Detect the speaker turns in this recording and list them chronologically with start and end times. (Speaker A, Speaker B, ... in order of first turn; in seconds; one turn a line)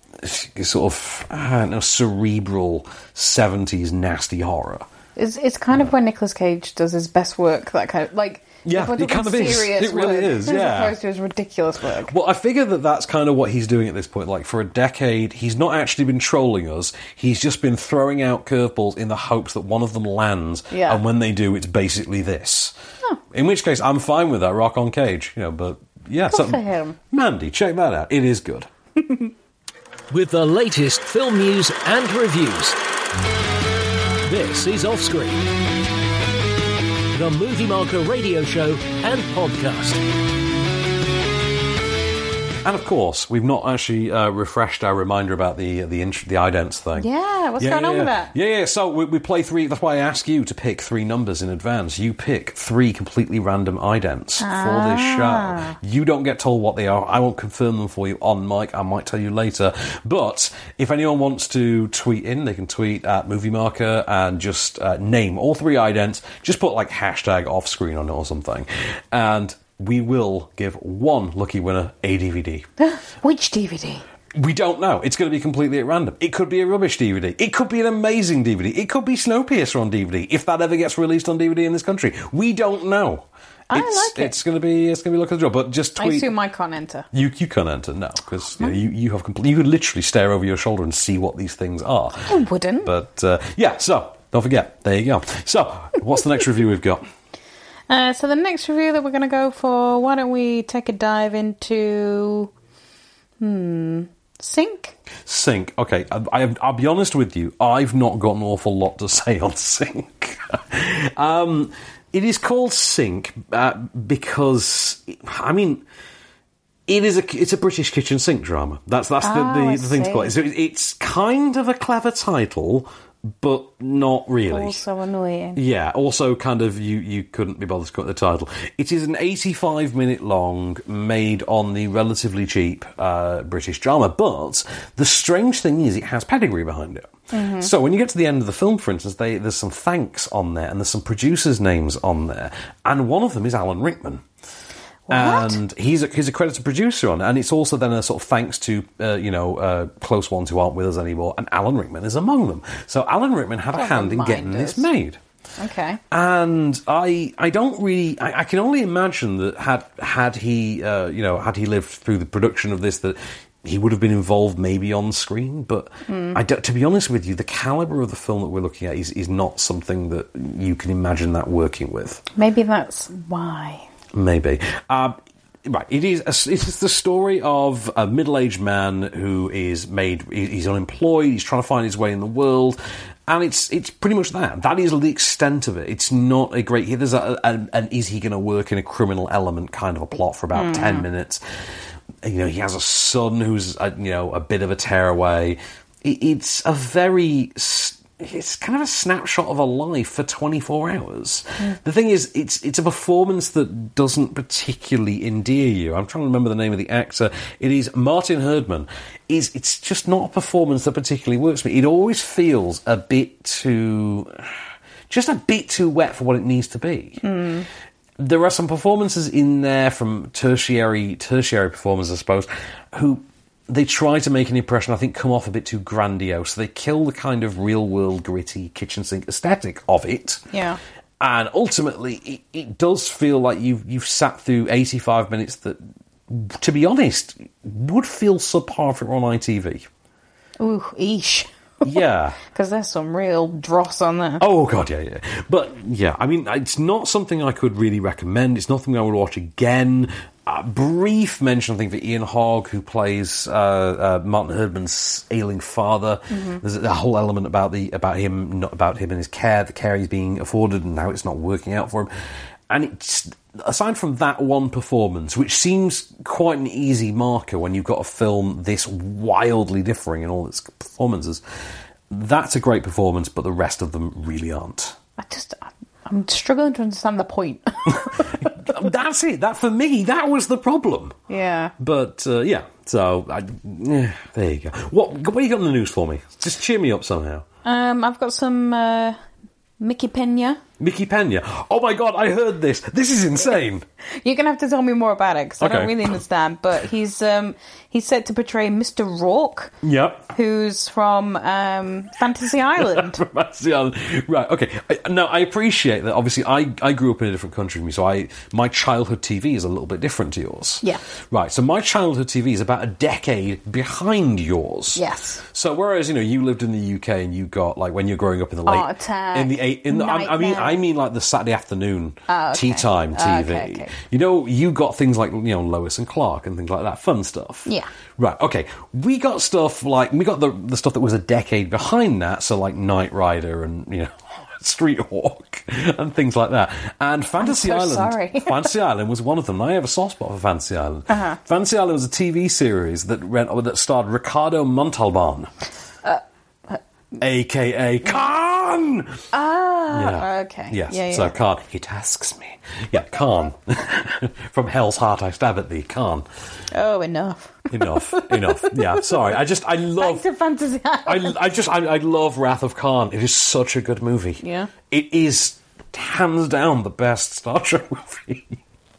Speaker A: 0.2-4.9
Speaker B: 5.2-12.1
Speaker A: 8.7-10.9
Speaker A: 12.1-22.8
Speaker B: 20.7-21.0
Speaker A: 23.3-28.7
Speaker B: 26.3-27.0
Speaker C: 30.1-32.8
Speaker C: 34.2-35.5
Speaker C: 37.1-40.0
Speaker A: 42.6-47.1
Speaker B: 47.0-48.3
Speaker A: 47.6-72.7
Speaker B: 54.4-55.8
Speaker B: 72.8-74.0
Speaker A: 74.3-86.3
Speaker B: 83.7-84.3
Speaker B: 86.0-87.1
Speaker A: 87.1-92.3
Speaker B: 92.3-92.9
Speaker A: 92.8-97.1
Speaker B: 97.9-102.5
Speaker B: 103.4-104.9
Speaker A: 105.3-115.8
Speaker A: 116.9-122.9
Speaker B: 119.2-120.3
Speaker A: 123.4-124.8
Speaker B: 124.5-125.6
Speaker A: 125.6-144.2
Speaker B: 137.3-137.7
Speaker B: 145.1-145.6
Speaker A: 145.1-155.2
Speaker B: 153.7-154.9
Speaker B: 155.6-156.0
Speaker A: 156.1-172.2
Speaker B: 166.1-166.4
Speaker B: 172.4-173.9
Speaker A: 174.1-191.4
Speaker B: 190.5-191.1
Speaker A: 192.2-214.4
Speaker A: 215.1-217.2
Speaker B: 217.2-217.7
Speaker A: 218.2-230.4
Speaker B: 230.5-230.8
Speaker A: 231.2-239.9
Speaker B: 240.6-244.4
Speaker A: 241.8-242.4
Speaker A: 244.4-262.1
Speaker B: 256.3-256.6
Speaker A: 262.7-271.4
Speaker A: 272.1-275.0
Speaker B: 275.2-278.5
Speaker A: 277.9-281.2
Speaker B: 281.3-281.7
Speaker A: 281.8-287.4
Speaker B: 287.6-289.2
Speaker B: 289.8-290.6
Speaker A: 290.8-293.9
Speaker B: 294.2-299.7
Speaker A: 295.6-296.2
Speaker A: 299.8-300.3
Speaker B: 300.3-303.2
Speaker A: 302.8-345.5
Speaker B: 315.0-315.4
Speaker B: 318.7-320.8
Speaker B: 322.3-323.9
Speaker B: 337.4-338.7
Speaker B: 341.1-341.4
Speaker B: 346.0-346.8
Speaker A: 347.2-349.2
Speaker B: 349.3-351.3
Speaker A: 349.9-356.2
Speaker B: 356.7-359.3
Speaker A: 357.7-360.2
Speaker B: 360.0-361.4
Speaker A: 361.1-368.6
Speaker B: 364.4-364.7